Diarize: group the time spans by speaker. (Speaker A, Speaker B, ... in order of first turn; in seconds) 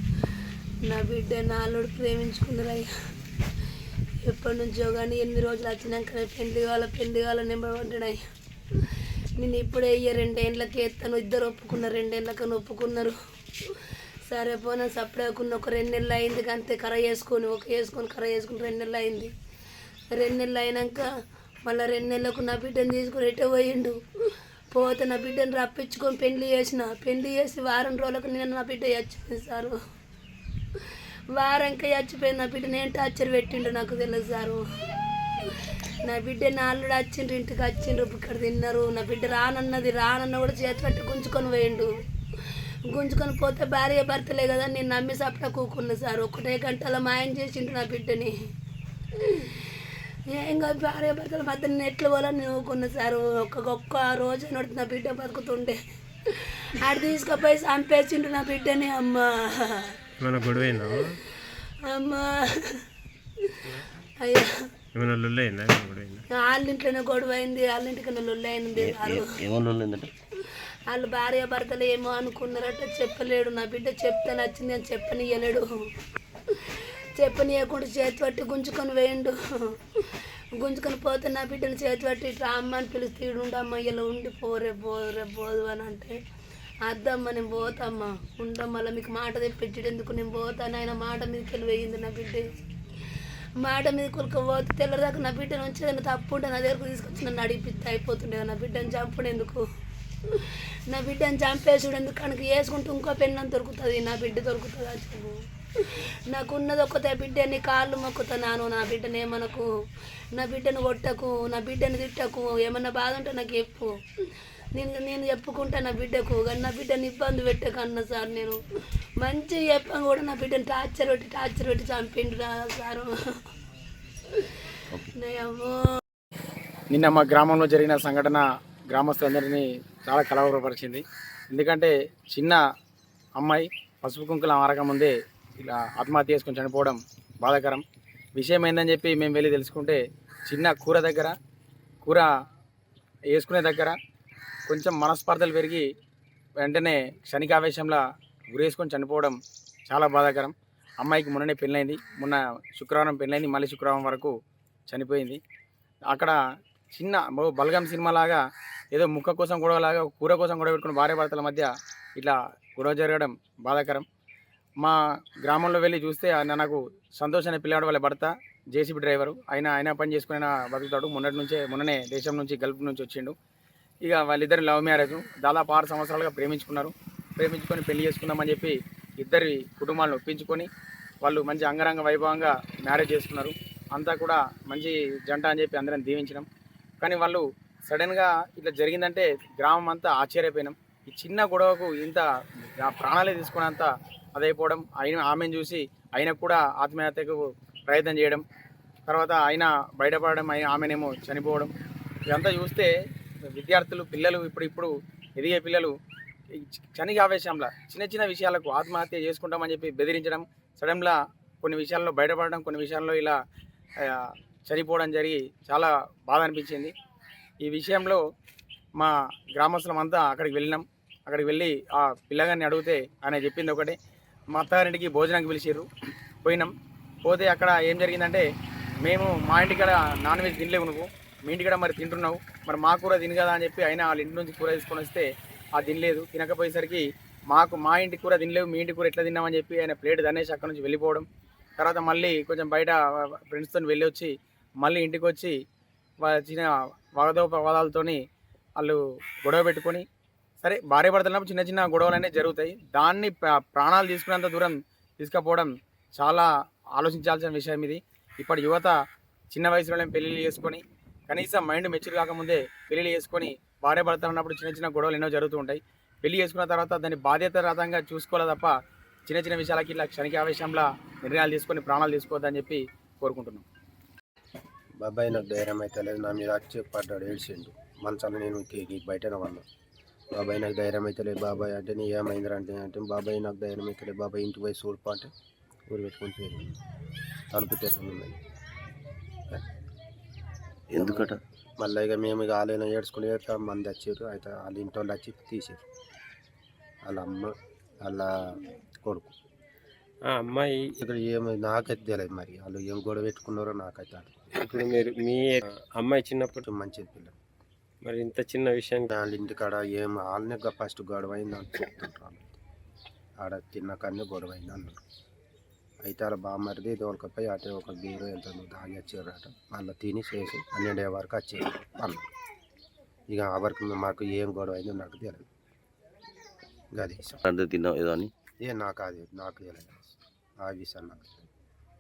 Speaker A: 0.8-2.9, 4.2-8.2, 9.4-13.2, 14.3-19.3, 20.1-21.1, 21.7-24.0, 24.7-29.8, 31.4-34.6, 36.0-41.9, 42.9-48.3, 49.2-49.7, 50.3-55.8, 56.3-59.9, 61.5-62.8, 64.2-64.5, 66.3-69.3, 70.9-75.7, 76.7-79.8, 80.5-86.2, 86.8-92.5, 93.6-99.6, 100.9-105.4, 106.3-109.7, 110.3-113.9, 114.8-118.6, 119.2-123.1, 125.2-125.8
Speaker B: 60.2-61.1, 65.0-66.2, 300.3-300.9, 304.6-306.6, 308.1-309.1
Speaker C: 68.8-70.1, 290.9-291.4, 327.4-328.3
Speaker D: 126.9-132.6, 133.4-137.8, 138.4-141.3, 142.0-142.3, 143.3-144.0, 144.7-145.8, 146.6-149.4, 149.9-154.3, 154.9-155.4, 156.1-156.4, 157.0-158.4, 158.9-164.1, 164.8-173.3, 174.1-180.7, 181.2-186.5, 187.0-192.2, 192.8-198.4, 199.1-201.7, 202.3-202.9, 203.6-205.9, 206.6-213.4, 214.0-216.9, 217.6-218.2, 219.0-224.0, 224.5-225.9, 226.4-226.7, 227.2-228.5, 229.0-235.3, 235.8-241.3, 241.8-245.6, 246.2-248.2, 248.8-250.1, 250.6-259.0, 259.5-268.8, 269.3-273.6
Speaker E: 275.0-279.6, 280.3-285.3, 285.9-286.8, 287.5-288.4, 290.9-295.8, 297.1-297.5, 298.0-299.3, 301.0-304.4, 306.7-307.4, 309.1-312.6, 313.4-315.0, 316.0-322.3, 323.3-325.5, 327.0-327.4, 328.6-331.5